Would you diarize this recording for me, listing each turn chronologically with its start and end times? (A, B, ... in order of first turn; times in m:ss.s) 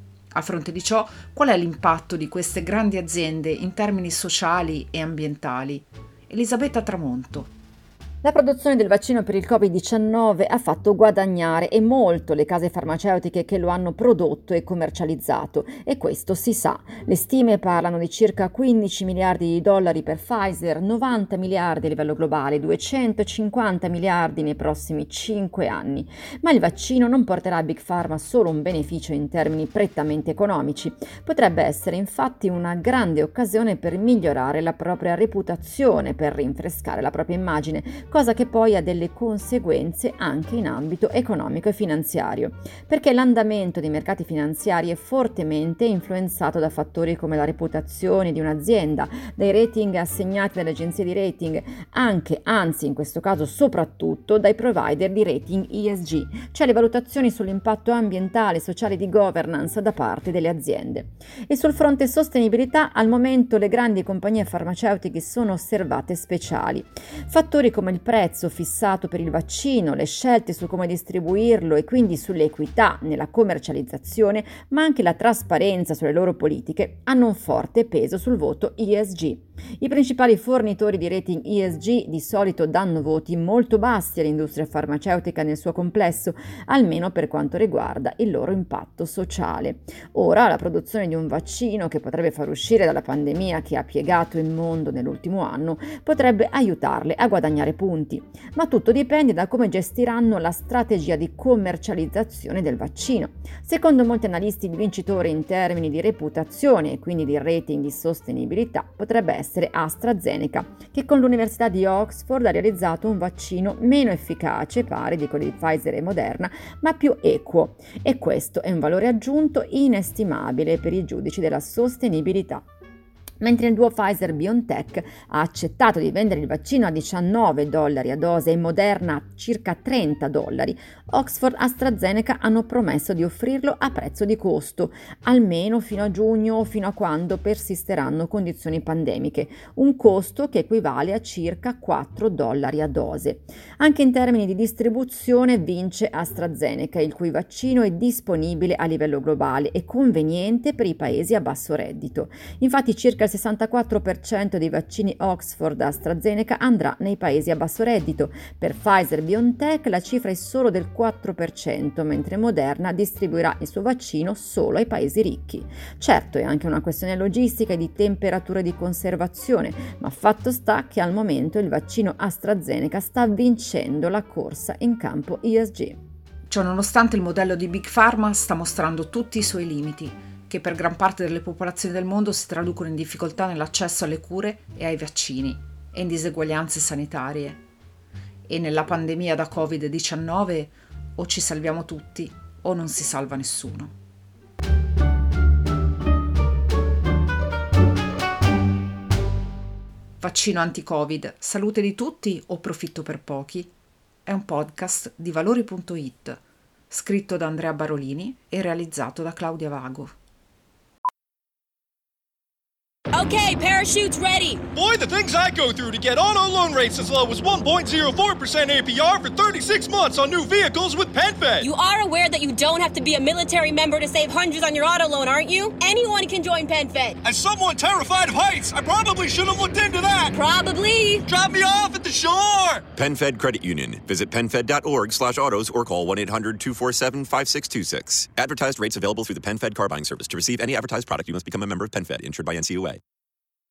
0:00.3-0:07.5 A
0:08.2-2:02.6 B
2:03.4-2:56.0 B
2:56.5-3:07.6 A
3:08.5-3:13.9 A
3:20.2-3:23.7 A
3:24.3-3:26.4 A
3:26.9-3:30.1 A
3:33.1-3:34.7 C
3:34.7-3:41.6 D
3:41.6-3:47.2 C
3:47.2-3:50.4 D
3:50.3-3:51.2 C
3:51.2-3:52.8 D
3:53.0-4:03.0 E